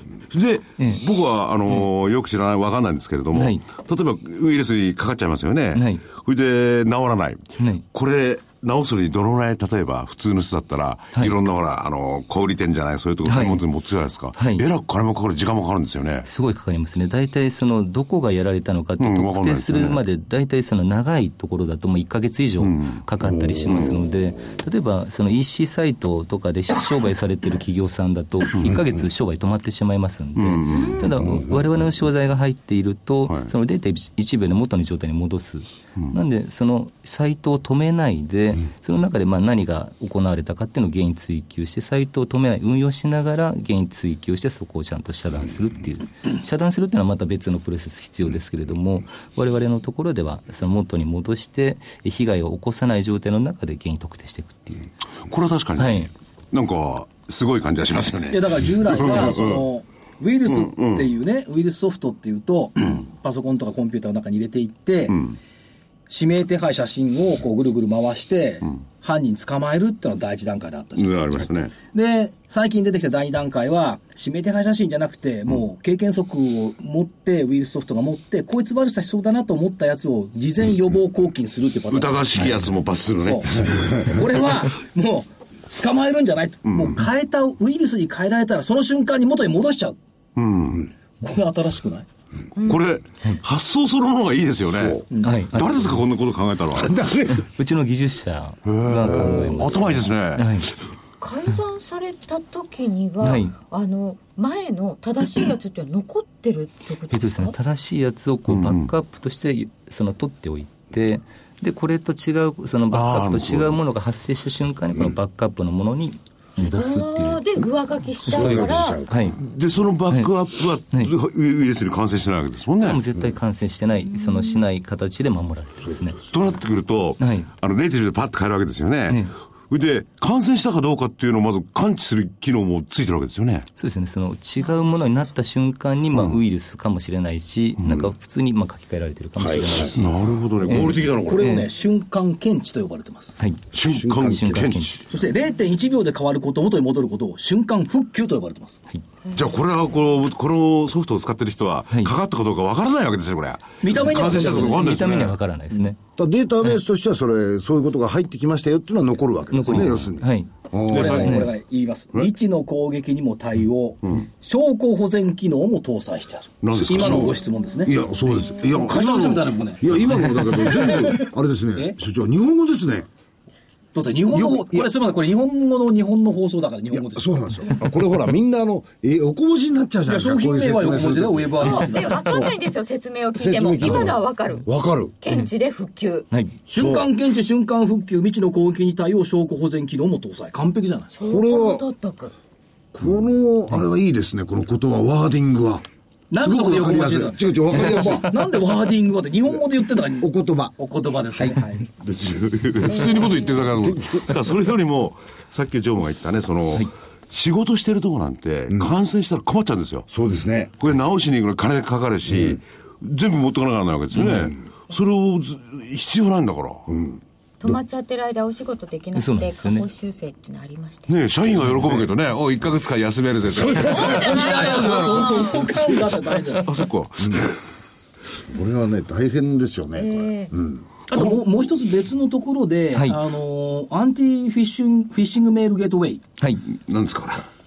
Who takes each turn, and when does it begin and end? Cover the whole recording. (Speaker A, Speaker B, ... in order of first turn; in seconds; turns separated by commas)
Speaker A: 0.3-16.3, Speaker B: 3.3-3.6, Speaker B: 5.7-6.0, Speaker B: 7.6-7.8, Speaker B: 13.2-13.6, Speaker B: 14.4-14.6, Speaker B: 16.2-54.9, Speaker A: 19.0-20.0, Speaker A: 22.6-23.0, Speaker C: 23.2-24.0, Speaker A: 23.7-24.0, Speaker A: 30.4-31.0, Speaker C: 31.1-31.8, Speaker A: 55.3-59.7, Speaker B: 55.8-56.1, Speaker D: 58.3-65.3, Speaker A: 60.5-61.1, Speaker D: 66.1-82.6, Speaker A: 71.0-71.7, Speaker A: 81.9-84.1, Speaker D: 83.2-90.0, Speaker A: 86.7-87.0, Speaker A: 90.3-90.9, Speaker D: 91.2-92.0, Speaker A: 92.6-97.1, Speaker D: 95.1-95.4, Speaker B: 95.2-96.0, Speaker C: 96.8-97.4, Speaker B: 97.2-100.7, Speaker A: 98.7-100.8, Speaker C: 99.1-99.8, Speaker E: 101.2-107.5, Speaker B: 103.2-103.5, Speaker B: 107.1-117.4, Speaker A: 108.5-108.9, Speaker A: 112.9-113.8, Speaker E: 116.6-119.0, Speaker C: 118.2-119.5, Speaker A: 118.3-118.8, Speaker B: 118.4-119.4, Speaker A: 119.4-123.0, Speaker B: 122.8-126.2, Speaker A: 126.3-133.7, Speaker B: 127.2-127.5, Speaker B: 129.1-129.3, Speaker B: 133.8-141.7, Speaker A: 137.8-138.1, Speaker C: 139.4-139.9, Speaker A: 139.6-141.6, Speaker D: 141.1-143.3, Speaker B: 143.4-143.6, Speaker A: 143.7-145.1, Speaker C: 143.8-144.7, Speaker B: 144.2-145.1, Speaker D: 145.1-148.8, Speaker A: 149.3-155.3, Speaker D: 153.8-155.0, Speaker B: 154.1-156.0, Speaker C: 156.2-161.4, Speaker B: 159.5-160.5, Speaker A: 159.7-160.1, Speaker D: 160.9-168.1, Speaker A: 160.9-161.4, Speaker A: 166.6-167.4, Speaker C: 166.7-173.1, Speaker E: 167.5-168.4, Speaker D: 168.6-172.0, Speaker D: 173.9-177.7, Speaker C: 174.3-174.9, Speaker C: 176.9-182.5, Speaker D: 180.1-182.3, Speaker E: 181.6-186.3, Speaker C: 183.3-185.2, Speaker D: 186.7-191.1, Speaker C: 186.7-187.1, Speaker E: 191.1-192.3, Speaker C: 191.2-191.9, Speaker C: 192.9-195.8, Speaker D: 196.3-201.9, Speaker C: 196.3-198.3, Speaker C: 200.2-200.8, Speaker C: 201.3-204.5, Speaker A: 202.2-210.1, Speaker E: 203.0-203.3, Speaker C: 210.1-210.7, Speaker A: 210.8-216.9, Speaker C: 212.3-212.6, Speaker B: 214.1-214.5, Speaker C: 216.9-217.8, Speaker E: 217.6-221.1, Speaker B: 219.1-219.9, Speaker A: 221.1-227.6, Speaker C: 221.6-222.0, Speaker C: 223.5-224.1, Speaker E: 223.7-225.7, Speaker D: 223.9-226.7, Speaker C: 227.2-227.5, Speaker C: 228.4-231.2, Speaker E: 230.0-230.5, Speaker D: 231.1-236.2, Speaker B: 232.9-233.2, Speaker A: 236.7-237.5